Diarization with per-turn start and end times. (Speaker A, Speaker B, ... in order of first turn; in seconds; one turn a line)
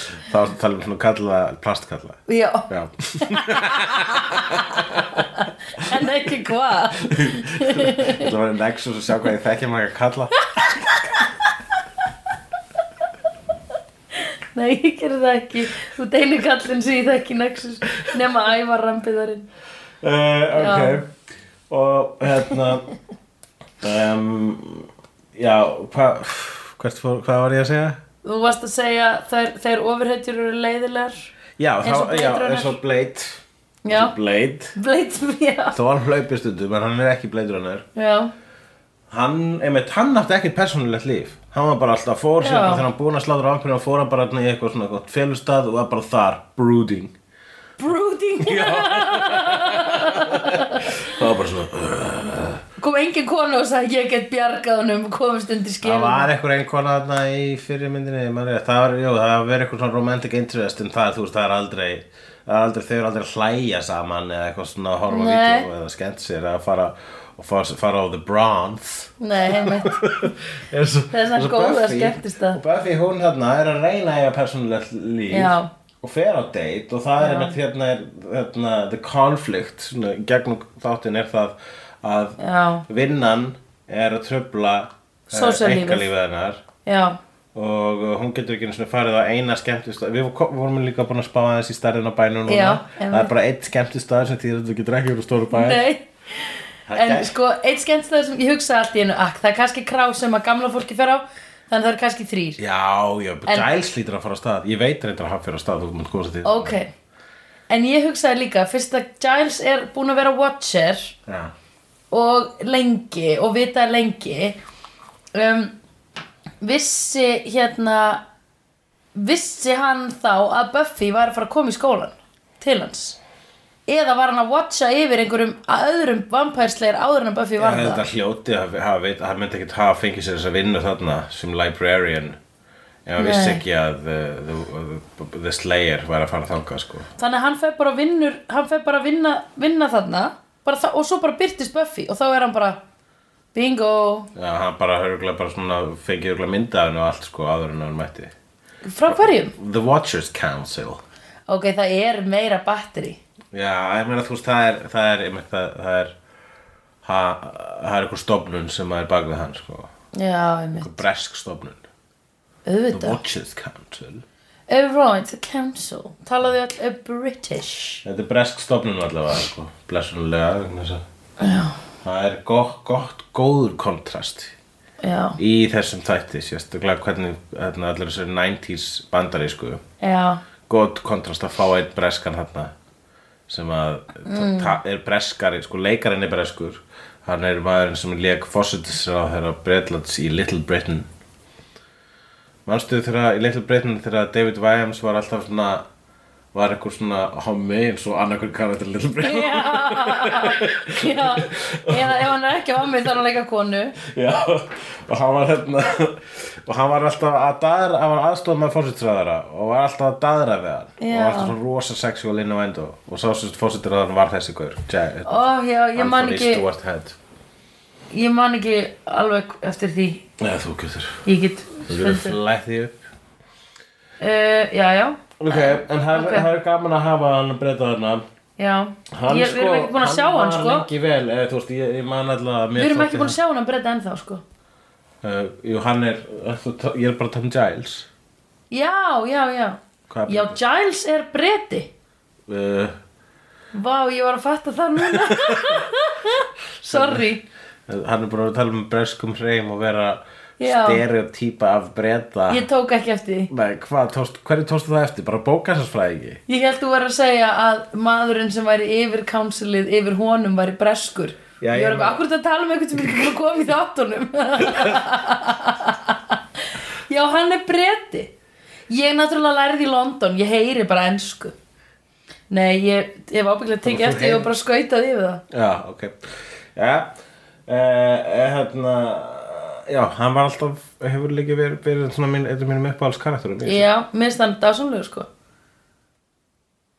Speaker A: 0.2-6.0
Speaker B: 2.3-8.3
Speaker A: 7.0-10.8
Speaker B: 10.4-11.5
Speaker B: 14.1-19.5
Speaker A: 20.0-21.1
Speaker B: 20.6-21.0
Speaker A: 21.7-22.9
Speaker A: 23.8-28.0
Speaker B: 28.2-31.3
Speaker A: 31.6-34.7
Speaker B: 31.8-32.8
Speaker B: 33.8-34.1
Speaker B: 34.7-35.8
Speaker A: 35.7-37.8
Speaker B: 38.0-38.3
Speaker A: 39.1-47.1
Speaker B: 42.4-42.9
Speaker B: 47.8-50.9
Speaker A: 48.4-52.6
Speaker B: 52.8-56.3
Speaker A: 55.8-86.6
Speaker B: 65.1-65.7
Speaker B: 69.2-70.3
Speaker B: 71.1-72.6
Speaker B: 75.3-75.7
Speaker B: 77.2-77.5
Speaker B: 82.4-82.8
Speaker B: 85.3-86.1
Speaker B: 86.8-87.2
Speaker A: 87.5-95.8
Speaker B: 92.5-93.3
Speaker B: 95.5-102.6
Speaker A: 96.9-97.3
Speaker A: 102.6-106.8
Speaker B: 106.4-106.9
Speaker B: 107.7-111.2
Speaker A: 111.3-111.5
Speaker B: 112.1-114.6
Speaker B: 115.3-115.7
Speaker B: 116.6-118.2
Speaker B: 119.2-123.2
Speaker B: 123.9-128.1
Speaker A: 127.6-132.4
Speaker A: 133.1-137.1
Speaker B: 133.2-133.6
Speaker B: 137.2-142.8
Speaker B: 143.5-144.3
Speaker A: 144.3-148.3
Speaker B: 148.8-149.5
Speaker A: 149.1-151.0
Speaker B: 151.5-153.2
Speaker A: 153.5-156.1
Speaker A: 157.0-159.9
Speaker B: 160.1-161.0
Speaker A: 160.8-161.8
Speaker B: 162.7-163.2
Speaker A: 162.9-164.2
Speaker B: 164.7-168.0
Speaker A: 168.0-171.0
Speaker B: 171.4-171.8
Speaker A: 172.0-174.5
Speaker B: 175.0-175.4
Speaker A: 175.4-179.8
Speaker B: 180.0-180.4
Speaker A: 180.7-182.7
Speaker A: 183.5-191.1
Speaker B: 184.2-184.8
Speaker A: 192.7-195.8
Speaker A: 196.5-202.3
Speaker B: 199.2-204.0
Speaker A: 204.0-217.2
Speaker B: 211.0-211.5
Speaker B: 215.2-216.7
Speaker B: 218.1-220.2
Speaker A: 220.4-221.2
Speaker B: 221.2-222.4
Speaker A: 221.8-223.0
Speaker B: 224.2-226.5
Speaker A: 225.4-228.2
Speaker B: 228.6-230.9
Speaker A: 229.1-233.4
Speaker B: 232.8-234.4
Speaker A: 235.2-238.1
Speaker B: 238.7-241.9
Speaker A: 240.1-240.6
Speaker A: 242.5-242.9
Speaker B: 243.7-247.4
Speaker A: 245.0-245.9
Speaker A: 246.9-247.2
Speaker A: 247.9-252.7
Speaker B: 250.6-251.0
Speaker B: 252.5-253.5
Speaker A: 253.5-256.4
Speaker B: 256.5-266.4
Speaker A: 261.6-262.2
Speaker A: 264.7-265.0
Speaker B: 267.1-268.3
Speaker B: 268.9-271.5
Speaker B: 272.5-275.4
Speaker A: 273.8-274.5
Speaker A: 275.5-277.1
Speaker A: 277.7-283.9
Speaker B: 283.6-285.3